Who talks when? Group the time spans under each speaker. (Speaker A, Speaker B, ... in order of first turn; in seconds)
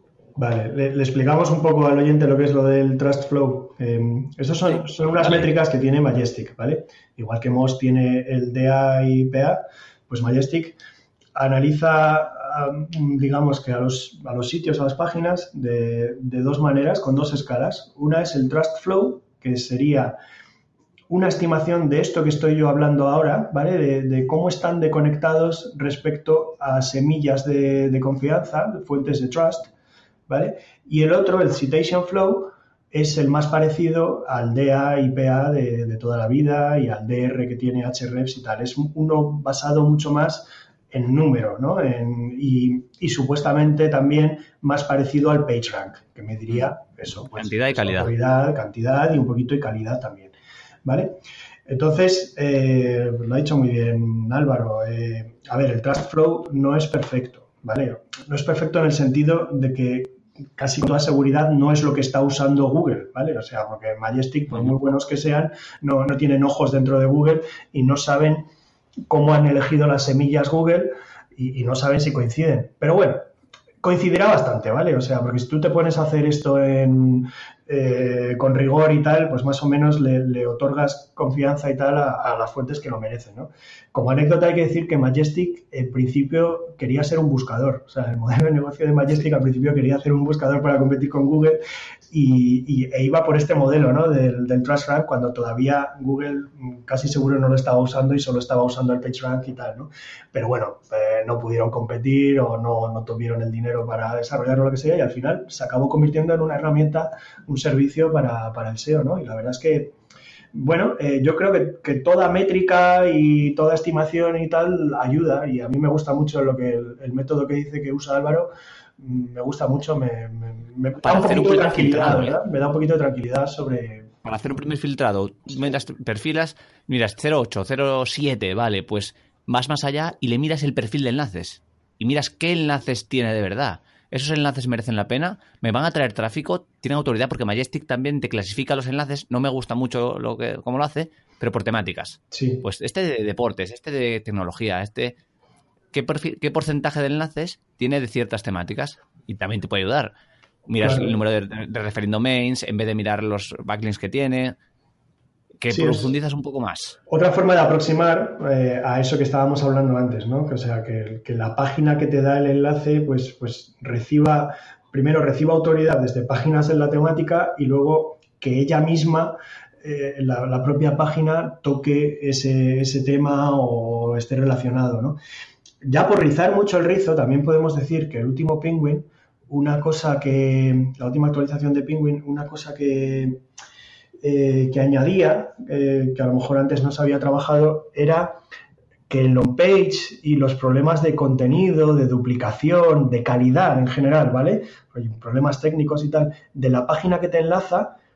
Speaker A: 0.3-10.8, 11.3-20.2, 21.1-29.7, 30.3-50.3, 50.8-68.5, 69.1-73.3, 73.8-91.6, 92.1-110.0, 110.5-124.1, 142.3-142.6, 150.8-151.1, 155.7-156.1, 157.1-175.2, 175.8-183.4, 184.2-188.4, 189.1-198.0
Speaker B: 5.2-5.5, 47.4-48.1, 121.0-122.4, 124.2-145.2, 145.9-150.1, 150.7-154.6, 155.6-157.0